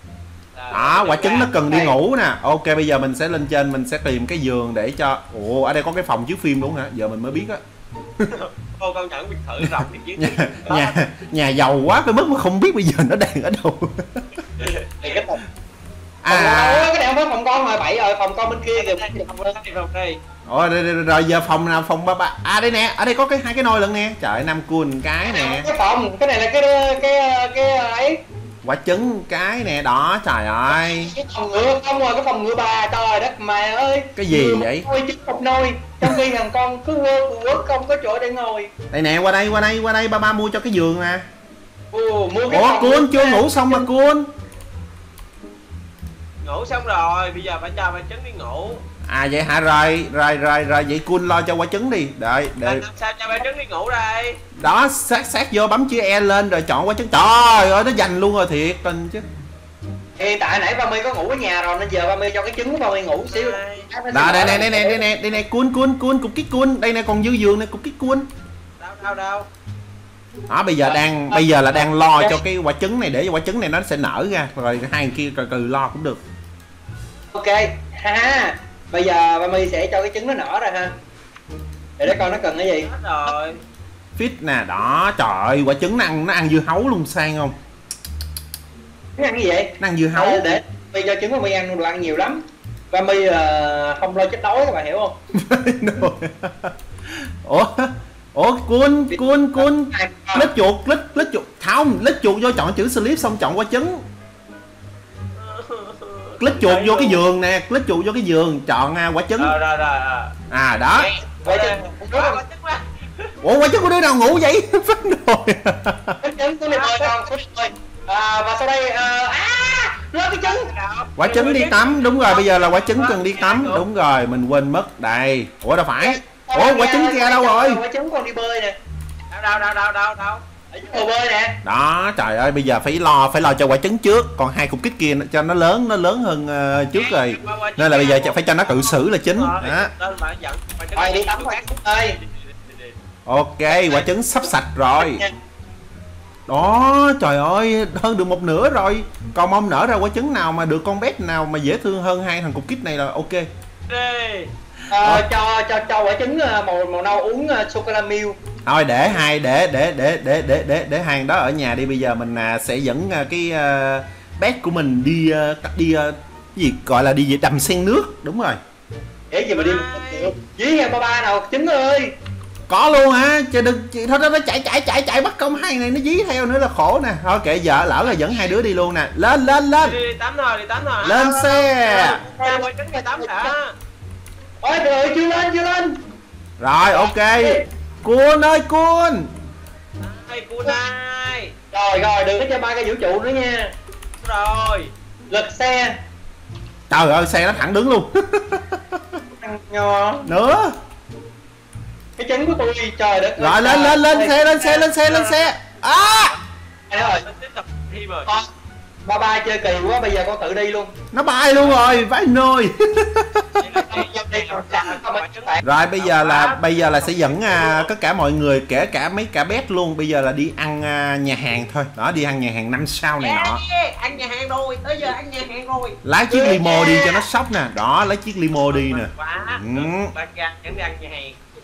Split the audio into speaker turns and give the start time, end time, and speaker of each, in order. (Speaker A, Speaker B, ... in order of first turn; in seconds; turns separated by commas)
Speaker A: 0.5-1.5, Speaker B: 0.7-7.6, Speaker C: 1.7-1.9, Speaker A: 8.3-10.9, Speaker B: 9.6-14.2, Speaker A: 14.5-15.2, Speaker C: 15.0-15.4, Speaker B: 16.2-16.9, Speaker C: 16.3-19.6, Speaker A: 18.8-20.2, Speaker B: 20.4-25.7, Speaker C: 25.3-28.2, Speaker B: 28.6-31.1, Speaker C: 30.7-38.7, Speaker B: 34.1-34.9, Speaker B: 38.9-41.2, Speaker C: 41.9-43.9, Speaker B: 42.5-44.3, Speaker A: 46.4-48.8, Speaker B: 49.1-52.8, Speaker A: 52.6-54.4, Speaker B: 54.6-59.2, Speaker C: 60.2-65.0, Speaker A: 63.3-63.9, Speaker B: 64.1-68.3, Speaker A: 68.8-69.5, Speaker B: 70.5-76.2, Speaker C: 77.3-80.9, Speaker C: 82.0-83.3, Speaker A: 82.8-83.6, Speaker B: 84.2-87.5, Speaker C: 89.2-92.4, Speaker B: 89.8-90.6, Speaker C: 92.9-95.1, Speaker B: 95.3-104.0, Speaker C: 99.1-100.5, Speaker A: 105.3-107.2, Speaker B: 106.4-109.5, Speaker A: 109.4-110.3, Speaker B: 110.5-111.1, Speaker A: 111.0-113.3, Speaker C: 111.4-112.4, Speaker B: 113.4-116.2, Speaker C: 116.2-120.7, Speaker A: 116.6-117.2, Speaker A: 120.4-123.8, Speaker B: 121.2-127.8, Speaker C: 126.0-128.8, Speaker A: 129.3-130.4, Speaker C: 130.7-131.6, Speaker B: 131.6-139.9, Speaker A: 136.9-143.0, Speaker C: 140.9-142.2, Speaker B: 143.2-145.2, Speaker C: 143.9-145.3, Speaker B: 146.5-153.5, Speaker A: 153.9-154.5, Speaker C: 154.9-158.3, Speaker B: 155.0-155.2, Speaker B: 158.6-168.6, Speaker C: 169.3-172.1, Speaker A: 169.5-170.3, Speaker B: 172.7-180.0, Speaker A: 179.8-183.7, Speaker B: 181.0-182.2, Speaker C: 181.9-183.5, Speaker C: 184.6-185.9, Speaker B: 186.6-189.3, Speaker C: 186.9-187.6, Speaker A: 190.0-191.5, Speaker C: 191.7-193.7, Speaker A: 194.2-194.9, Speaker C: 195.3-195.9, Speaker B: 196.9-198.8, Speaker C: 199.4-200.3, Speaker B: 200.2-200.7, Speaker C: 202.2-204.9, Speaker B: 203.4-206.3, Speaker A: 204.9-205.5, Speaker C: 206.9-207.2, Speaker A: 206.9-208.3, Speaker C: 209.0-210.9, Speaker B: 211.1-213.4, Speaker A: 213.6-217.9, Speaker C: 213.8-215.6, Speaker B: 215.6-223.6, Speaker A: 223.2-226.0, Speaker B: 226.0-230.1, Speaker C: 226.3-227.2, Speaker A: 228.7-231.4